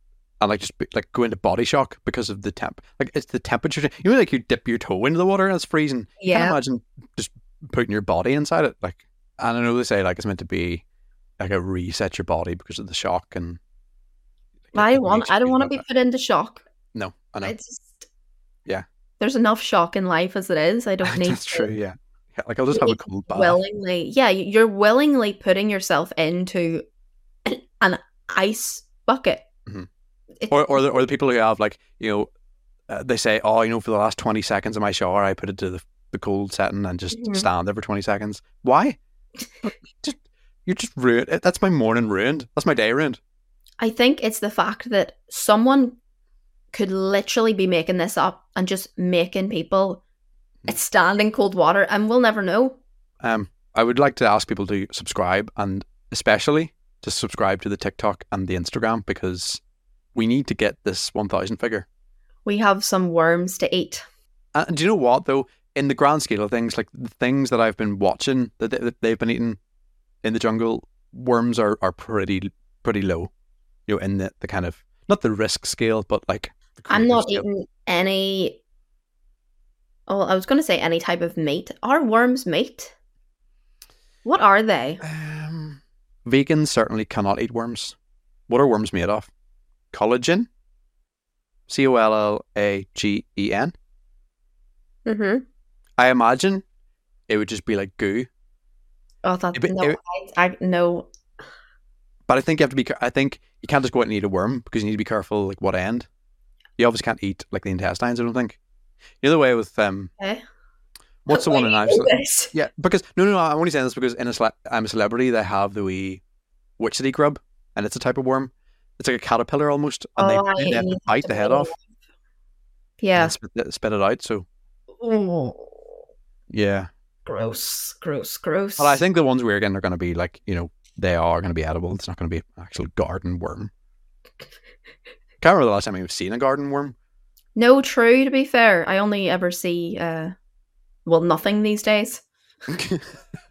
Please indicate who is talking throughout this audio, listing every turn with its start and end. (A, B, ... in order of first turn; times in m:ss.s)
0:00.4-0:10.8 A
0:06.2-0:06.6 B
0:11.4-0:13.6 A
0:14.7-0:15.8 A
0:14.7-0:16.6 B
0:16.9-0:17.6 A
0:17.4-0:18.1 B
0:19.2-0:21.7 B
0:21.0-0:23.6 A
0:22.7-0:26.8 B
0:27.4-0:29.4 B
0:30.4-0:30.8 B
0:30.5-0:32.3 A
0:32.9-0:39.0 A
0:37.1-0:37.5 B
0:39.6-0:43.2 A
0:43.8-0:46.0 B
0:46.7-0:50.0 B
0:50.7-0:52.8 B
0:53.2-0:59.6 A
1:00.1-1:01.9 A
1:02.4-1:04.0 B
1:04.6-1:09.6 A
1:10.2-1:13.3 A
1:13.9-1:17.4 A
1:16.9-1:18.6 B
1:20.1-1:22.9 B
1:24.2-1:25.0 B
1:25.0-1:28.0 A
1:28.5-1:29.3 A
1:29.9-1:30.5 A
1:31.7-1:33.7 A
1:35.1-1:35.4 B
1:36.0-1:36.6 A
1:37.3-1:38.3 A
1:39.2-1:41.1 B
1:39.5-1:40.0 A
1:42.3-1:46.1 A
1:46.8-1:48.6 A
1:49.2-1:50.1 A
1:51.3-1:56.2 A
1:51.3-1:52.6 B
1:56.8-2:01.7 A
2:00.2-2:01.8 B
2:03.0-2:03.4 B
2:03.2-2:04.4 A
2:05.0-2:05.9 B
2:06.5-2:06.9 A
2:07.3-2:09.0 B
2:08.8-2:13.7 A
2:15.4-2:16.9 A
2:17.6-2:20.3 B
2:21.1-2:22.2 B
2:22.7-2:23.1 A